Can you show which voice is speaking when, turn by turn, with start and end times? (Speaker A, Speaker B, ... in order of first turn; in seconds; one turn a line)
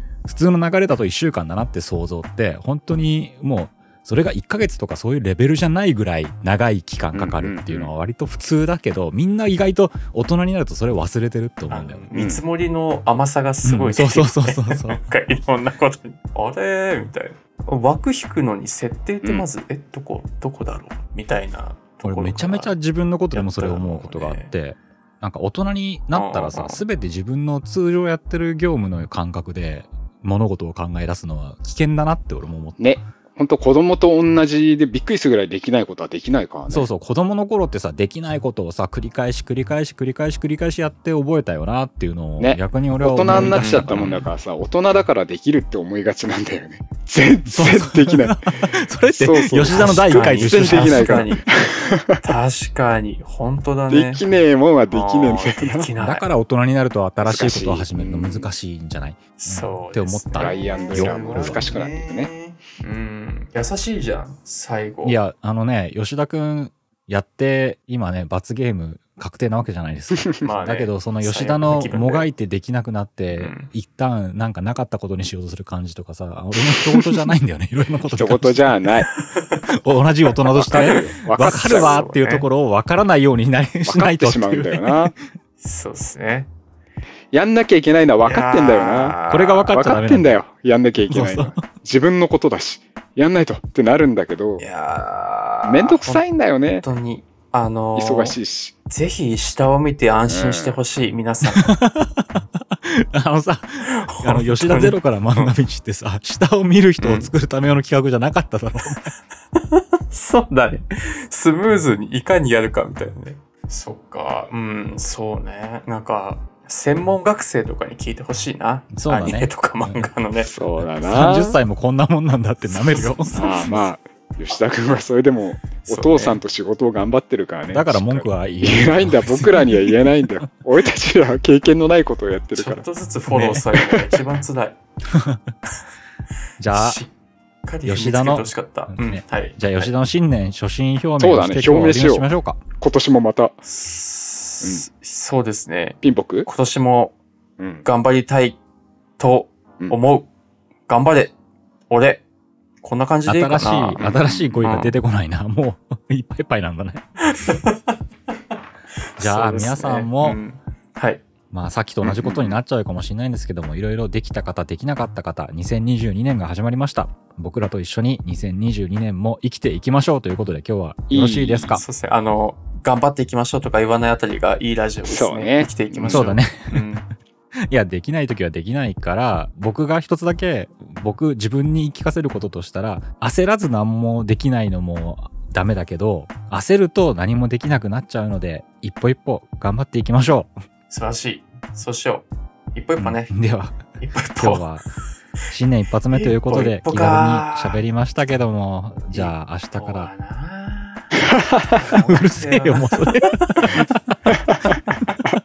Speaker A: 0.2-12.1
Speaker B: 7.1-7.9
Speaker C: 11.7-22.7
Speaker B: 12.1-12.4
Speaker A: 13.6-15.0
Speaker A: 22.0-32.9
Speaker C: 23.3-24.5
Speaker C: 26.1-26.8
Speaker B: 32.8-36.9
Speaker A: 36.7-44.2
Speaker B: 42.4-48.4
Speaker C: 43.3-44.2
Speaker A: 47.5-51.3
Speaker B: 49.1-52.2
Speaker C: 49.7-51.4
Speaker C: 52.2-54.3
Speaker B: 53.9-55.9
Speaker C: 54.9-56.3
Speaker A: 56.0-61.6
Speaker B: 57.2-58.5
Speaker C: 59.4-65.2
Speaker B: 60.4-62.3
Speaker A: 65.0-78.9
Speaker C: 70.4-72.3
Speaker C: 73.3-73.7
Speaker B: 78.1-79.1
Speaker C: 79.2-79.7
Speaker A: 79.7-85.2
Speaker B: 80.5-82.0
Speaker C: 80.7-82.5
Speaker B: 83.8-85.1
Speaker C: 85.6-86.5
Speaker B: 87.3-94.6
Speaker C: 88.2-89.7
Speaker A: 89.3-90.4
Speaker A: 91.1-91.6
Speaker C: 94.6-96.2
Speaker B: 95.6-96.8
Speaker C: 96.8-98.4
Speaker B: 97.9-98.7
Speaker C: 98.9-101.7
Speaker B: 100.3-100.8
Speaker A: 101.5-109.0
Speaker C: 103.8-105.5
Speaker C: 107.0-107.3
Speaker C: 109.5-120.5
Speaker A: 118.9-120.1
Speaker B: 120.4-121.6
Speaker A: 120.8-123.4
Speaker C: 122.7-123.8
Speaker B: 123.3-132.8
Speaker C: 125.8-126.4
Speaker A: 127.7-130.0
Speaker C: 132.5-134.8
Speaker A: 133.3-133.6
Speaker B: 133.7-134.2
Speaker A: 135.1-135.5
Speaker A: 136.6-137.0
Speaker C: 136.7-137.1
Speaker C: 137.7-139.9
Speaker A: 137.8-142.6
Speaker B: 141.2-143.6
Speaker C: 143.7-147.1
Speaker B: 146.0-146.5
Speaker B: 147.6-147.8
Speaker C: 147.8-148.6
Speaker C: 149.2-150.3
Speaker C: 150.9-151.3
Speaker C: 151.9-152.2
Speaker C: 152.8-154.9
Speaker A: 153.2-157.0
Speaker B: 154.0-154.6
Speaker C: 157.2-157.9
Speaker C: 159.2-161.2
Speaker A: 159.2-160.4
Speaker A: 161.5-171.8
Speaker B: 162.0-162.6
Speaker B: 171.1-171.8
Speaker C: 171.8-177.0
Speaker B: 175.0-176.4
Speaker A: 176.1-176.8
Speaker A: 177.7-190.5
Speaker C: 190.9-193.3
Speaker A: 193.0-194.9
Speaker C: 194.0-195.0
Speaker A: 195.5-200.1
Speaker C: 196.1-197.8
Speaker C: 199.1-203.8
Speaker B: 201.3-201.8
Speaker A: 201.9-204.0